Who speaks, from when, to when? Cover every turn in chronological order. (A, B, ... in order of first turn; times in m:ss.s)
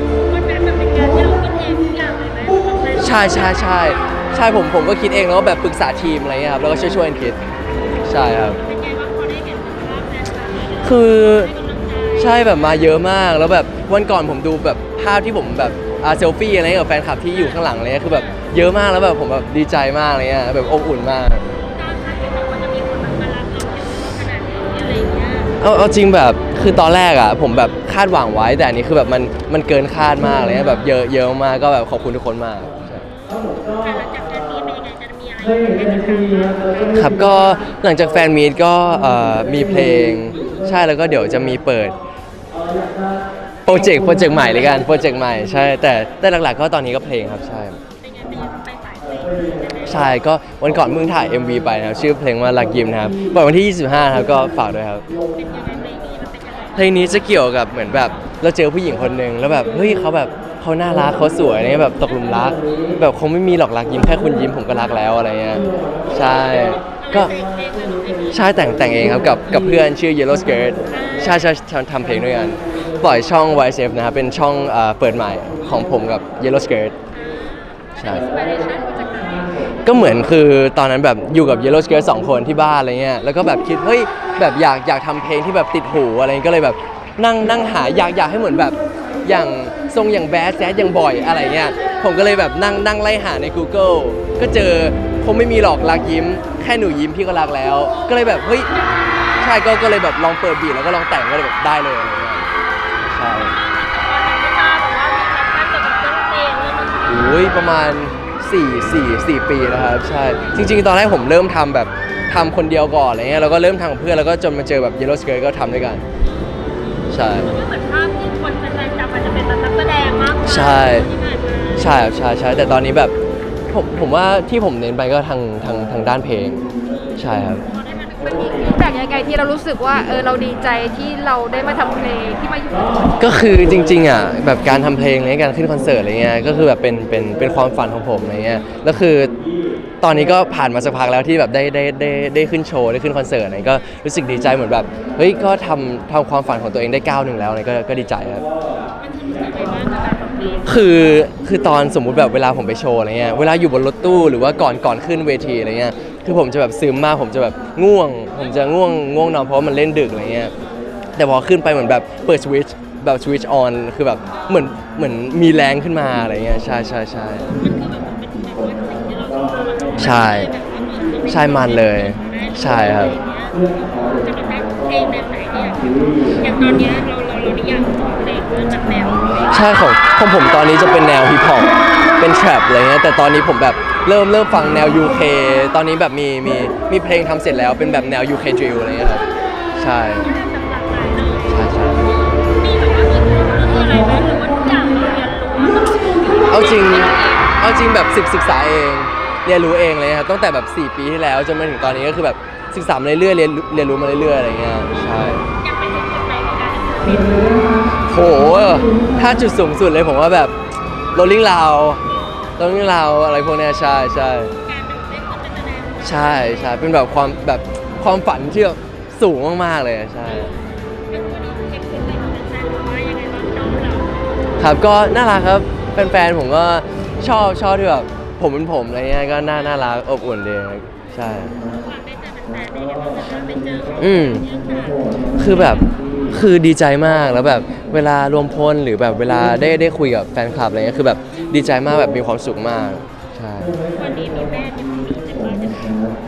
0:00.2-0:03.9 A
0:03.0-0:07.4 B
0:08.0-0:08.6 B
0:08.0-0:12.6 A
0:10.8-0:11.5 B
0:12.2-0:21.4 B
0:18.0-0:18.5 A
0:21.7-0:25.5 A
0:25.6-0:33.0 B
0:33.2-0:37.1 A
0:36.9-0:42.0 B
0:43.6-0:47.8 B
0:48.0-0:49.8 A
0:49.8-0:55.1 B
0:55.2-0:57.0 A
0:56.7-1:07.4 B
1:07.0-1:08.3 A
1:08.3-1:16.9 B
1:10.9-1:11.5 A
1:17.1-1:19.5 A
1:18.0-1:18.2 B
1:19.8-1:38.7 B
1:39.4-1:42.4 B
1:43.1-1:43.5 B
1:43.4-1:47.4 A
1:47.1-1:56.0 B
1:57.1-1:57.5 B
1:57.3-2:01.9 A
2:00.4-2:01.1 B
2:01.8-2:03.1 B
2:03.7-2:07.6 B
2:07.6-2:09.0 A
2:08.7-2:13.1 C
2:13.2-2:19.3 B
2:20.0-2:28.4 B
2:29.0-2:30.8 A
2:30.6-2:40.5 B
2:41.2-2:47.5 B
2:47.5-2:59.6 A
2:50.0-2:50.5 B
2:51.3-2:53.1 B
2:59.5-3:10.3 B
3:10.2-3:17.6 A
3:11.5-3:12.0 B
3:16.5-3:25.4 B
3:25.6-3:27.8 A
3:28.0-3:30.5 B
3:31.1-3:32.0 B
3:32.6-3:34.5 B
3:34.6-3:36.1 A
3:36.0-3:40.5 B
3:40.3-3:44.1 A
3:44.6-3:51.6 B
3:51.8-3:55.0 A
3:54.0-3:54.4 B
3:55.4-4:03.8 B
4:03.9-4:06.0 A